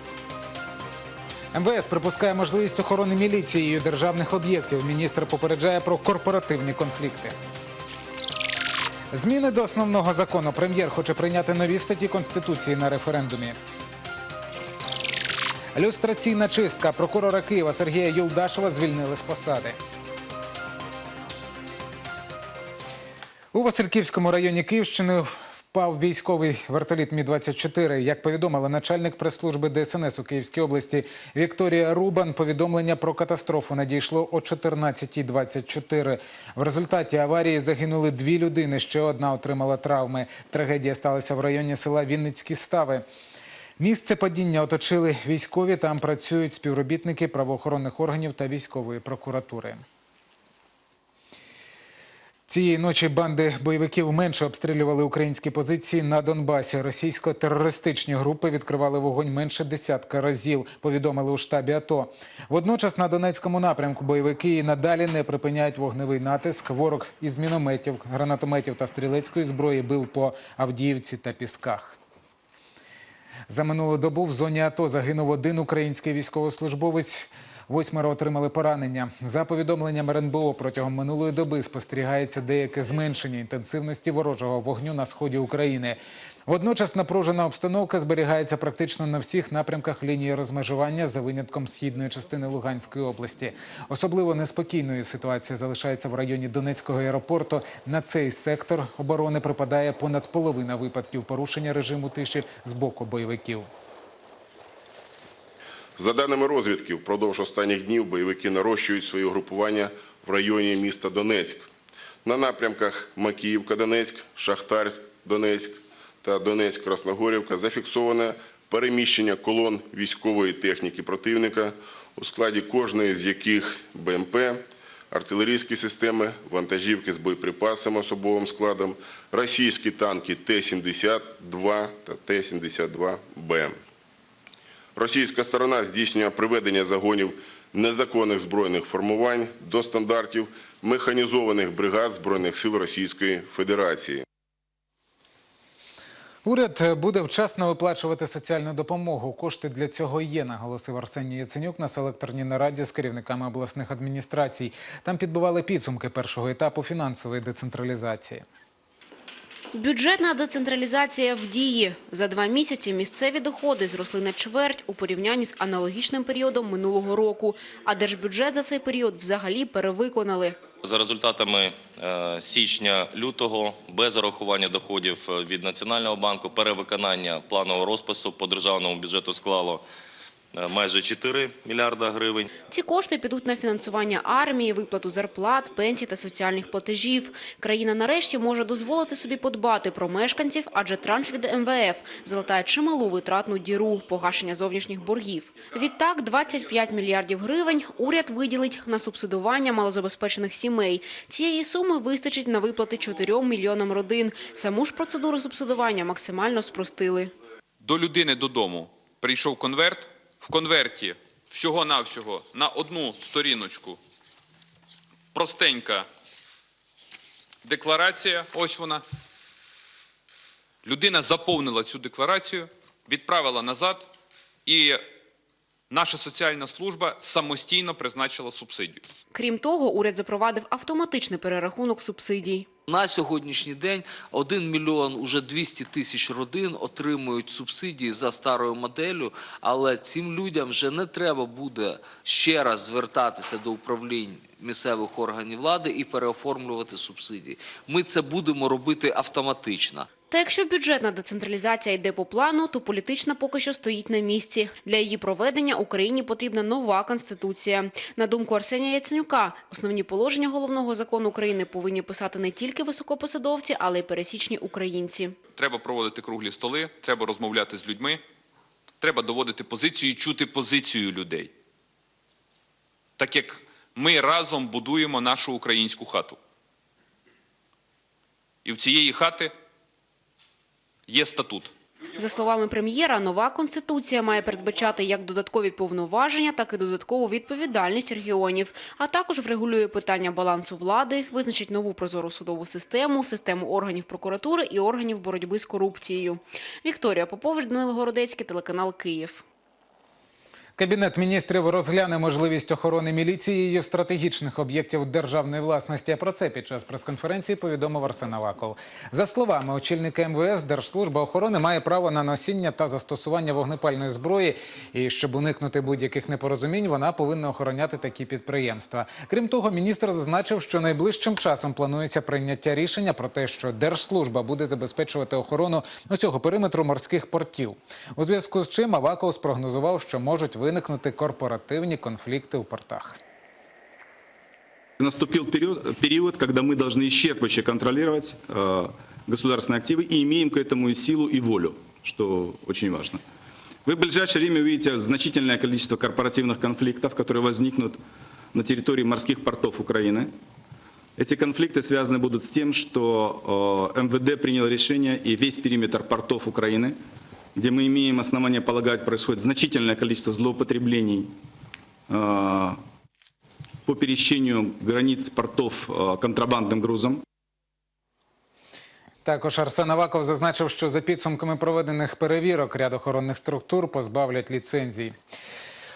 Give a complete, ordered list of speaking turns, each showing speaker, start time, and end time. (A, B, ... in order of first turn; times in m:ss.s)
0:01.5-0:07.4 A
0:09.1-0:13.6 A
0:15.7-0:19.8 A
0:23.5-0:43.0 A
0:43.8-0:49.8 A
0:52.5-1:12.0 A
1:13.5-1:43.7 A
1:46.0-1:51.7 B
1:52.2-2:04.6 B
2:05.1-2:13.8 B
2:15.0-2:24.2 B
2:26.4-2:38.4 A
2:39.7-2:50.6 C
2:50.8-2:59.8 D
3:00.5-3:02.5 D
3:02.7-3:27.3 C
3:27.8-3:34.0 E
3:35.3-3:36.1 E
3:37.6-3:39.0 E
3:40.8-3:44.1 E
3:44.6-3:45.0 E
3:45.9-3:49.0 E
3:49.3-3:52.6 C
3:52.9-4:10.1 F
4:10.3-4:25.3 C
4:25.6-4:28.2 E
4:29.0-4:31.5 E
4:33.2-4:36.4 E
4:38.6-4:39.5 E
4:41.1-4:41.7 E
4:42.2-4:59.4 C
5:00.8-5:33.2 A
5:35.0-5:43.2 G
5:43.8-5:48.0 G
5:48.5-5:50.3 G
5:51.2-5:57.0 G
5:57.6-6:01.3 G
6:02.1-6:02.8 G
6:03.8-6:07.2 G
6:09.2-6:15.1 A